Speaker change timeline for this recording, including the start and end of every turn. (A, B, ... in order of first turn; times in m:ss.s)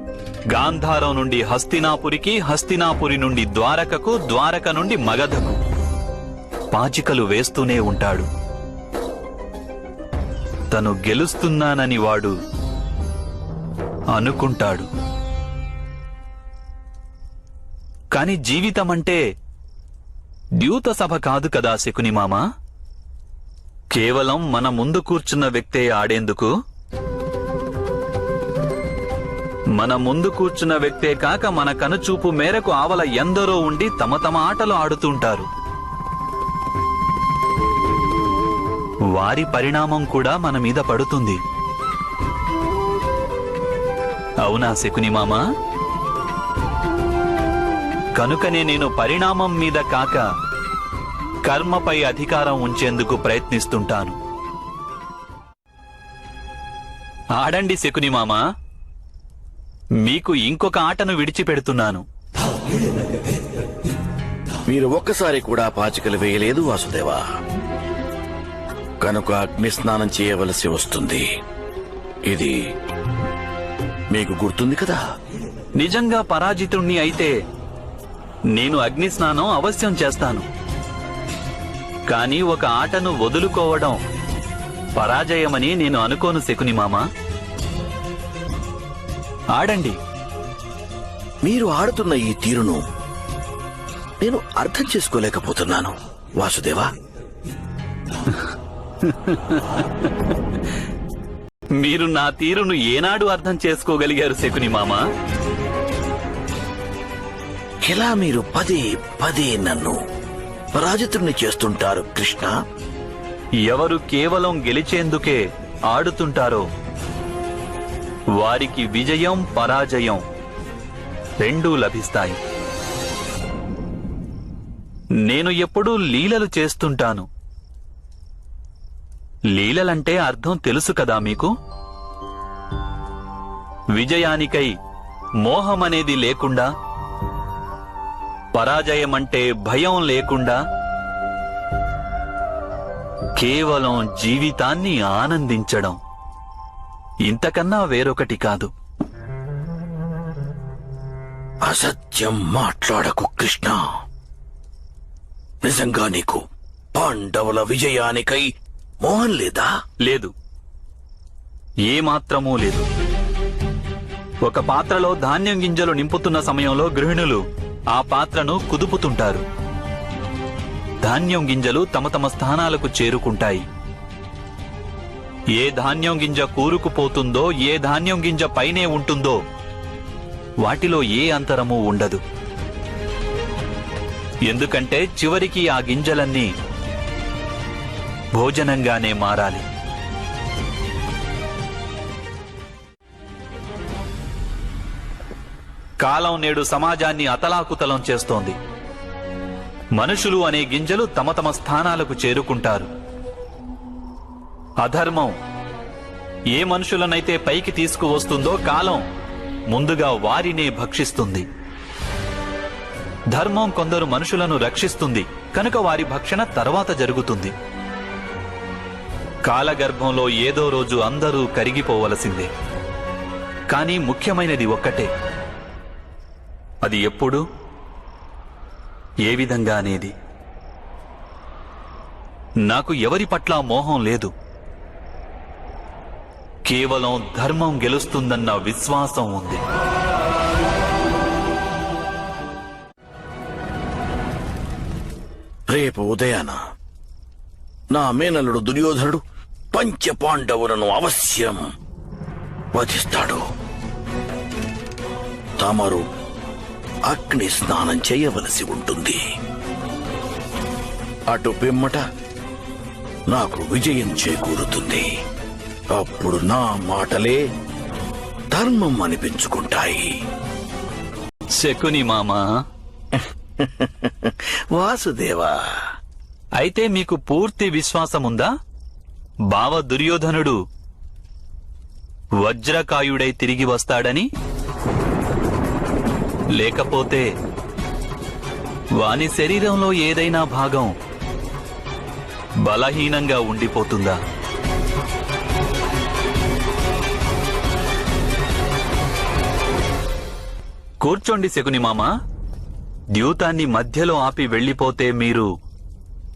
0:00.5-0:05.6 A
0:06.7-0:08.3 A
0:10.7-0:12.3 A
0:14.1-0:14.9 A
0:18.1-0:19.2 A
0:20.6-0:22.4 A
0:23.9-0:26.5 A
0:29.7-0:35.5 A
0:39.1-0:41.4 A
0:44.4-0:45.4 A
0:48.1-0:50.2 A
0:51.4-0:54.2 A
0:57.4-0:58.4 A
1:00.0-1:02.0 A
1:04.7-1:07.2 B
1:09.0-1:11.2 B
1:12.3-1:12.5 B
1:14.1-1:15.0 B
1:15.8-1:17.4 A
1:18.5-1:20.5 A
1:22.1-1:24.0 A
1:25.0-1:27.0 A
1:29.5-1:30.0 A
1:31.4-1:32.8 B
1:34.2-1:36.9 B
1:38.2-1:40.4 A
1:41.8-1:45.0 A
1:47.8-1:50.0 B
1:50.7-1:52.6 B
1:53.6-1:56.7 A
1:58.3-2:00.2 A
2:01.4-2:02.4 A
2:05.2-2:07.3 A
2:09.5-2:11.5 A
2:13.9-2:14.7 A
2:15.4-2:16.7 A
2:18.5-2:20.6 A
2:23.4-2:26.0 A
2:27.2-2:28.7 A
2:31.6-2:33.8 B
2:35.6-2:36.4 B
2:36.9-2:38.5 B
2:39.0-2:39.7 B
2:40.0-2:40.3 A
2:41.9-2:42.8 A
2:44.4-2:49.4 A
2:51.0-2:53.6 A
2:55.5-2:59.4 A
3:00.6-3:02.2 A
3:04.4-3:06.5 A
3:08.3-3:09.6 A
3:16.0-3:18.6 A
3:20.0-3:22.9 A
3:24.8-3:25.4 A
3:26.5-3:29.0 A
3:29.7-3:31.4 A
3:33.3-3:37.5 A
3:39.4-3:42.5 A
3:43.7-3:45.1 A
3:46.8-3:47.4 A
3:49.2-3:50.1 A
3:52.6-3:54.3 A
3:56.6-3:59.6 A
4:05.7-4:06.6 B
4:07.9-4:11.6 B
4:12.7-4:13.4 B
4:15.6-4:16.0 B
4:17.1-4:19.2 B
4:21.3-4:22.0 B
4:23.3-4:25.1 B
4:25.9-4:27.4 B
4:28.5-4:30.1 B
4:31.5-4:32.5 A
4:33.2-4:35.5 B
4:36.6-4:38.5 A
4:39.5-4:40.6 A
4:42.4-4:44.3 A
4:46.6-4:47.3 A
4:49.0-4:50.9 A
4:52.6-4:54.2 A
5:01.0-5:02.1 A
5:03.1-5:05.5 A